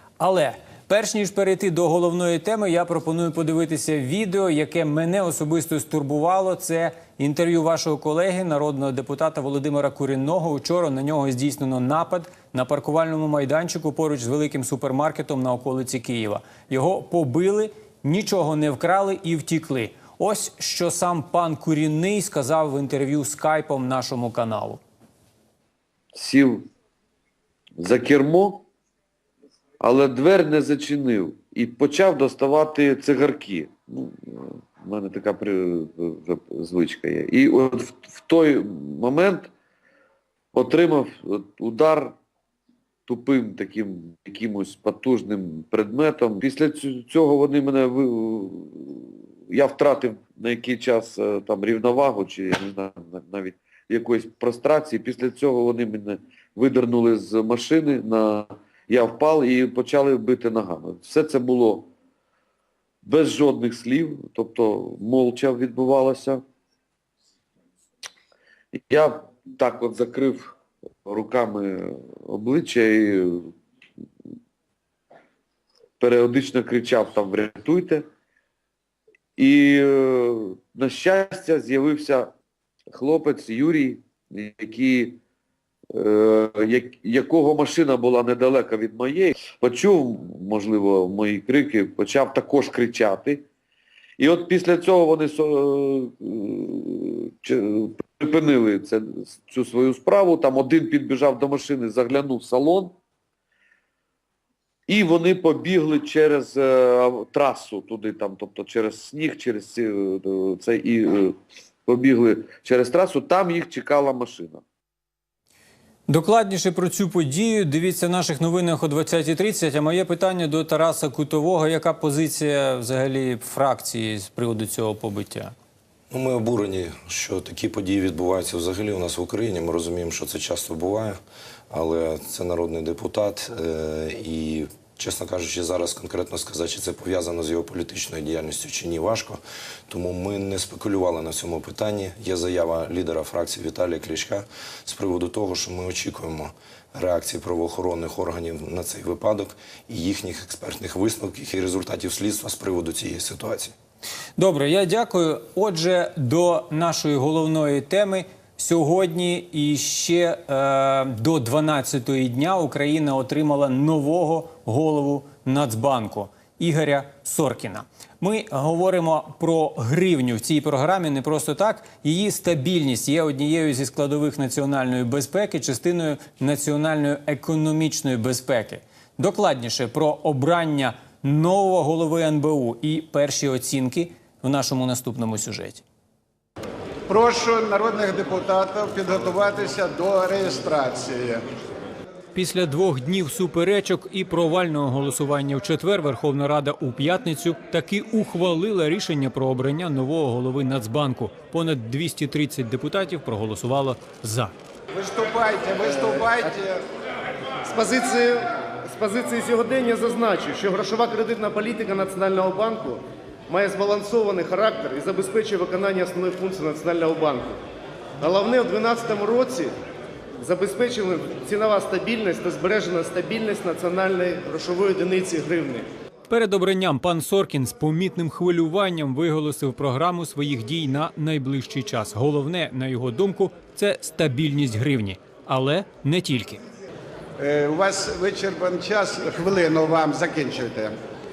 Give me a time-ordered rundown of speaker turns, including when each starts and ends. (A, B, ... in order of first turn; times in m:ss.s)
0:00.2-0:24.8 A
0:26.1-0:26.7 B
0:27.8-0:28.6 B
0:29.8-0:39.5 B
0:40.5-0:42.2 B
0:43.1-1:01.9 B
1:03.0-1:06.4 B
1:08.7-1:13.5 B
1:16.0-1:18.1 B
1:19.4-1:22.3 B
1:22.9-1:25.2 B
1:25.9-1:33.4 B
1:34.2-1:43.0 B
1:44.9-1:54.6 B
1:56.1-2:05.5 A
2:06.1-2:11.2 C
2:11.7-2:33.7 C
2:34.4-3:05.8 A
3:07.1-3:11.4 D
3:12.3-3:24.5 A
3:24.9-3:26.8 D
3:27.6-3:37.6 E
3:38.2-3:39.7 E
3:40.4-3:45.9 E
3:46.3-3:56.6 A
3:57.4-4:00.9 D